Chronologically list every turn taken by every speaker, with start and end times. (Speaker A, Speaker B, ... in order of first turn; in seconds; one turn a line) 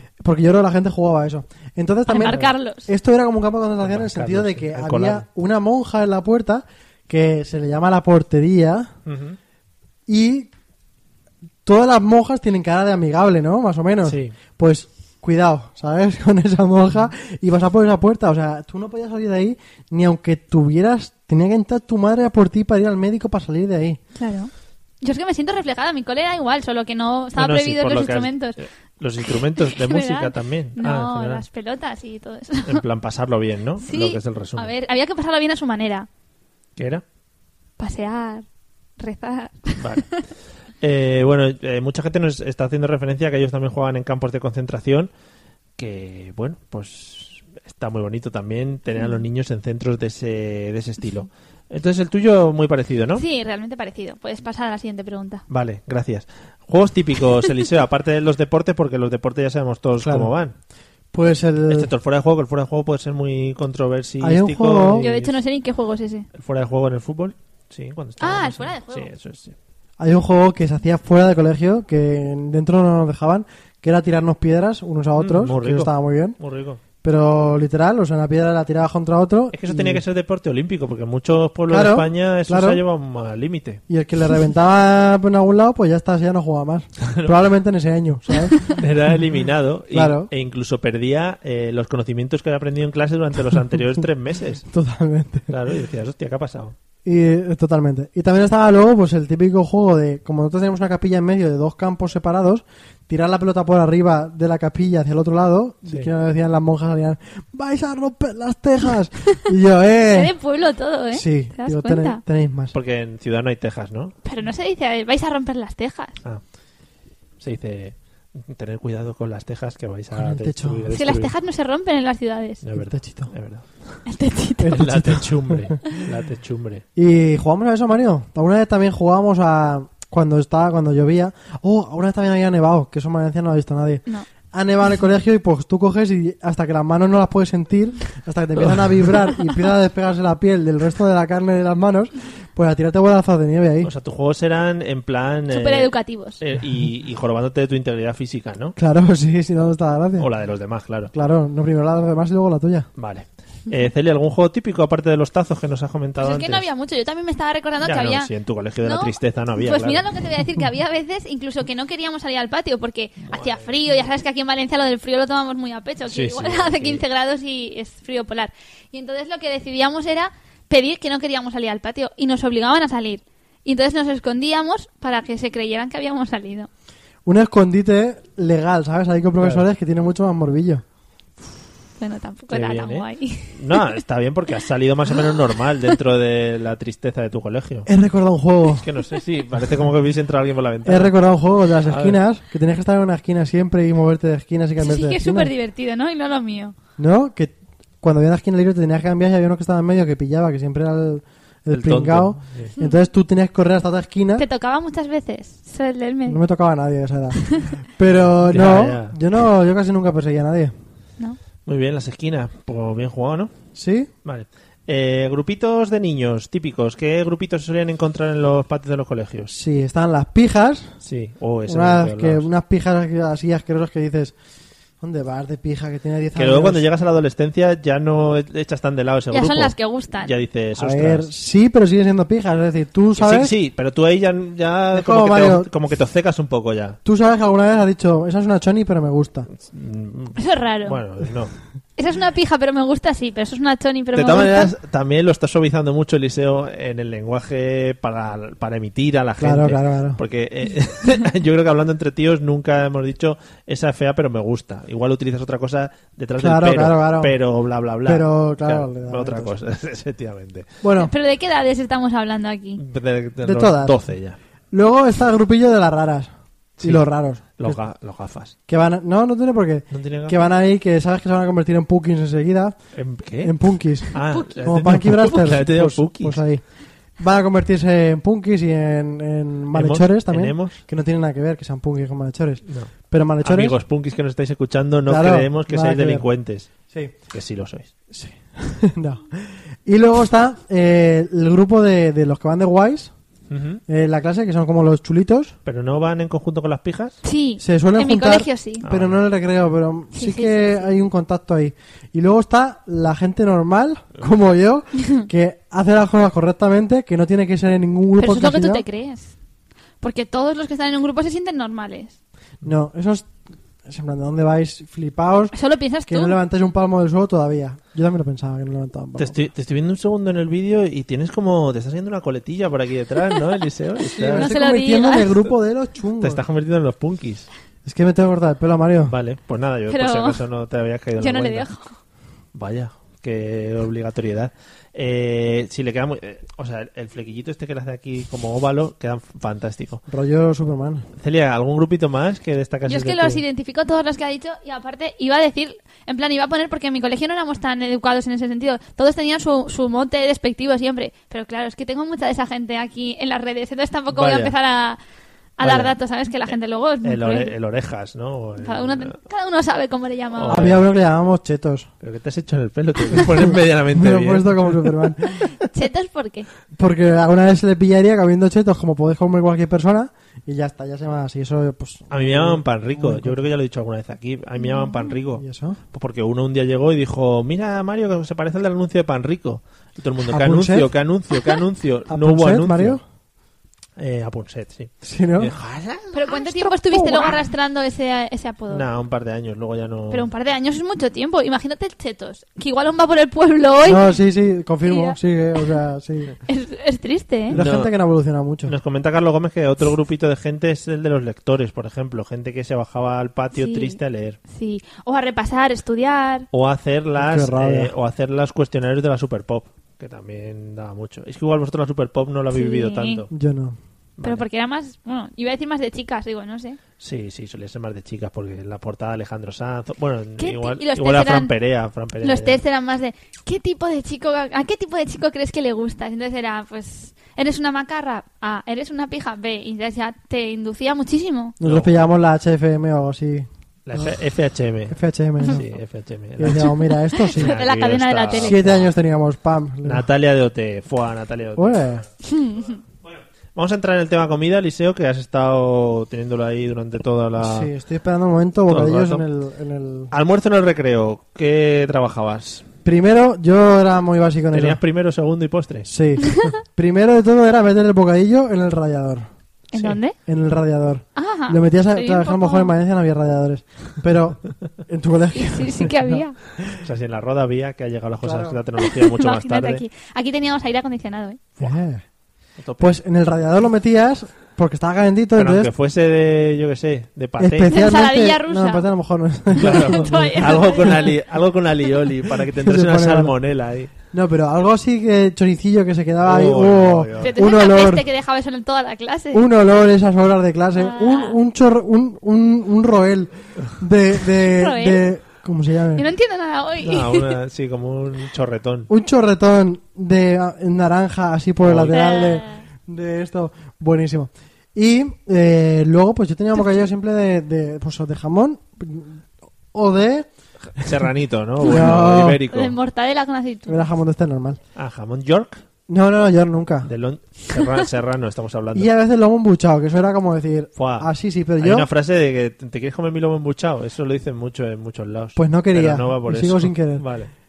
Speaker A: 0.2-8.9
Speaker B: 2.1-2.9
Speaker C: 2.3-2.5
Speaker C: 3.8-5.2
Speaker C: 9.1-9.4
Speaker A: 10.1-10.5
Speaker A: 11.6-24.0
Speaker C: 14.0-14.3
Speaker B: 24.1-24.5
Speaker B: 25.0-28.6
Speaker C: 27.4-31.4
Speaker B: 29.6-32.8
Speaker C: 32.7-34.7
Speaker B: 33.8-36.1
Speaker C: 36.8-37.0
Speaker B: 37.8-38.4
Speaker B: 39.0-40.2
Speaker C: 39.8-40.0
Speaker C: 40.8-45.1
Speaker C: 45.8-53.2
Speaker B: 53.1-55.4
Speaker C: 55.5-60.5
Speaker A: 60.0-60.3
Speaker A: 61.1-61.9
Speaker C: 61.7-65.4
Speaker A: 64.2-65.0
Speaker B: 65.0-66.2
Speaker C: 66.3-69.5
Speaker B: 68.2-69.1
Speaker A: 70.0-76.4
Speaker C: 75.2-76.8
Speaker A: 77.0-80.0
Speaker C: 79.5-83.8
Speaker A: 81.7-82.8
Speaker A: 83.9-88.7
Speaker C: 87.0-87.5
Speaker C: 88.6-94.6
Speaker A: 89.9-90.3
Speaker A: 94.7-95.5
Speaker C: 95.5-96.7
Speaker A: 97.0-110.3
Speaker B: 110.1-112.2
Speaker A: 111.1-112.7
Speaker C: 112.7-114.1
Speaker B: 114.2-116.2
Speaker C: 117.4-121.3
Speaker A: 120.1-120.8
Speaker B: 120.9-122.6
Speaker C: 122.6-124.0
Speaker A: 122.8-123.3
Speaker B: 124.0-124.8
Speaker A: 124.6-125.8
Speaker C: 124.7-126.8
Speaker A: 127.0-143.9
Speaker C: 143.8-148.8
Speaker B: 145.5-146.4
Speaker A: 148.8-150.3
Speaker C: 150.2-151.1
Speaker A: 151.1-152.9
Speaker C: 153.0-156.6
Speaker B: 156.2-158.3
Speaker C: 157.8-160.1
Speaker B: 158.8-176.7
Speaker C: 163.3-163.7
Speaker C: 166.1-167.0
Speaker A: 177.2-180.8
Speaker B: 182.0-183.8
Speaker C: 182.5-187.9
Speaker A: 187.8-188.8
Speaker C: 188.7-191.1
Speaker A: 190.8-195.5
Speaker C: 191.8-192.2
Speaker B: 194.8-196.7
Speaker A: 197.0-204.4
Speaker C: 201.7-202.7
Speaker B: 204.4-206.4
Speaker A: 206.2-210.7
Speaker C: 208.4-209.2
Speaker C: 211.7-213.5
Speaker A: 213.8-214.1
Speaker C: 214.2-219.5
Speaker A: 219.5-221.0
Speaker C: 221.0-222.5
Speaker A: 221.7-224.3
Speaker A: 225.0-226.8
Speaker C: 226.3-231.3
Speaker B: 229.3-230.3
Speaker A: 230.8-233.5
Speaker C: 233.2-237.0
Speaker A: 234.9-235.7
Speaker A: 237.0-239.5
Speaker C: 239.5-241.5
Speaker B: 240.4-241.0
Speaker B: 242.0-244.7
Speaker C: 244.1-260.7
Speaker A: 249.4-250.2
Speaker A: 256.4-257.4
Speaker A: 258.0-259.6
Speaker A: 260.8-261.1
Speaker B: 260.9-262.8
Speaker C: 262.8-264.4
Speaker A: 263.4-264.0
Speaker A: 264.7-267.8
Speaker C: 267.6-268.5
Speaker A: 268.7-272.8
Speaker C: 269.9-270.4
Speaker C: 272.9-273.6
Speaker A: 273.4-276.6
Speaker C: 274.1-276.4
Speaker B: 274.3-274.6
Speaker A: 277.2-283.8
Speaker C: 279.7-280.8
Speaker C: 283.4-286.7
Speaker A: 285.1-286.2
Speaker A: 286.9-287.1
Speaker C: 287.3-287.9
Speaker A: 288.1-293.1
Speaker C: 293.5-293.8
Speaker A: 293.9-295.5
Speaker C: 295.6-297.2
Speaker B: 297.2-298.8
Speaker A: 297.6-308.8
Speaker C: 298.8-299.2
Speaker B: 300.1-300.9
Speaker B: 308.2-309.3
Speaker B: 310.0-312.1
Speaker A: 312.6-313.3
Speaker A: 313.9-315.5
Speaker B: 315.5-316.4
Speaker A: 316.1-319.4
Speaker C: 319.2-324.5
Speaker A: 324.0-326.4
Speaker B: 324.4-325.4
Speaker C: 326.2-327.5
Speaker A: 327.8-329.1
Speaker C: 329.1-331.7
Speaker B: 329.9-330.4
Speaker B: 331.2-331.9
Speaker C: 332.5-340.0
Speaker A: 340.1-341.1
Speaker C: 341.2-343.4
Speaker B: 342.9-355.0
Speaker C: 354.1-354.5
Speaker B: 355.6-357.5
Speaker C: 355.6-355.9
Speaker C: 357.0-359.1
Speaker B: 358.6-360.7
Speaker C: 360.4-360.9
Speaker A: 360.5-361.9
Speaker C: 362.0-364.9
Speaker A: 363.1-365.5
Speaker B: 365.6-366.5
Speaker A: 366.7-373.5
Speaker C: 372.1-383.0
Speaker B: 374.6-375.1
Speaker A: 375.4-375.8
Speaker A: 380.2-380.9
Speaker A: 382.1-383.0
Speaker C: 384.0-386.4
Speaker A: 385.0-385.5
Speaker B: 386.1-388.8
Speaker A: 386.4-387.4
Speaker C: 388.7-390.3
Speaker B: 390.1-394.1
Speaker A: 393.9-396.3
Speaker B: 394.8-395.2
Speaker B: 396.5-397.6
Speaker A: 397.5-398.7
Speaker C: 397.5-397.9
Speaker C: 398.6-404.4
Speaker B: 403.5-406.5
Speaker C: 406.5-413.3
Speaker A: 407.2-407.9
Speaker B: 412.5-413.2
Speaker A: 413.3-413.8
Speaker C: 414.2-414.4
Speaker B: 414.2-416.8
Speaker C: 417.0-422.6
Speaker B: 420.4-421.5
Speaker B: 422.2-431.5
Speaker A: 431.6-434.1
Speaker C: 431.6-431.9
Speaker C: 433.9-435.0
Speaker A: 434.9-435.6
Speaker C: 435.5-438.9
Speaker A: 436.4-437.6
Speaker B: 436.6-438.6
Speaker A: 438.4-440.1
Speaker C: 439.8-442.0
Speaker A: 441.6-442.0
Speaker B: 442.2-442.8
Speaker C: 443.0-447.7
Speaker A: 447.4-450.1
Speaker C: 448.7-449.2
Speaker C: 450.1-452.7
Speaker A: 452.8-454.8
Speaker C: 454.5-455.9
Speaker A: 455.9-459.3
Speaker B: 459.7-460.1
Speaker A: 460.2-466.2
Speaker B: 461.1-462.7
Speaker B: 465.3-466.4
Speaker C: 466.6-469.8
Speaker A: 468.2-468.6
Speaker B: 468.8-471.4
Speaker A: 471.6-472.0
Speaker C: 472.6-473.0
Speaker A: 472.8-475.7
Speaker C: 475.4-477.8
Speaker A: 477.4-481.1
Speaker B: 477.7-478.9
Speaker C: 479.6-483.9
Speaker B: 479.6-481.1
Speaker A: 482.6-483.3
Speaker A: 484.1-488.0
Speaker C: 486.2-487.4
Speaker B: 487.2-489.4
Speaker A: 489.3-496.1
Speaker B: 490.8-491.4
Speaker B: 494.5-495.0
Speaker B: 495.9-497.3
Speaker C: 496.8-498.9
Speaker A: 498.9-509.2
Speaker C: 501.6-502.0
Speaker B: 501.9-502.6
Speaker A: 509.7-510.3
Speaker C: 510.7-512.7
Speaker A: 511.6-512.4
Speaker B: 512.5-513.9
Speaker A: 513.7-514.6
Speaker C: 514.8-515.6
Speaker A: 515.9-516.9
Speaker C: 516.8-518.9
Speaker A: 518.7-521.9
Speaker C: 520.8-527.3
Speaker A: 525.4-527.0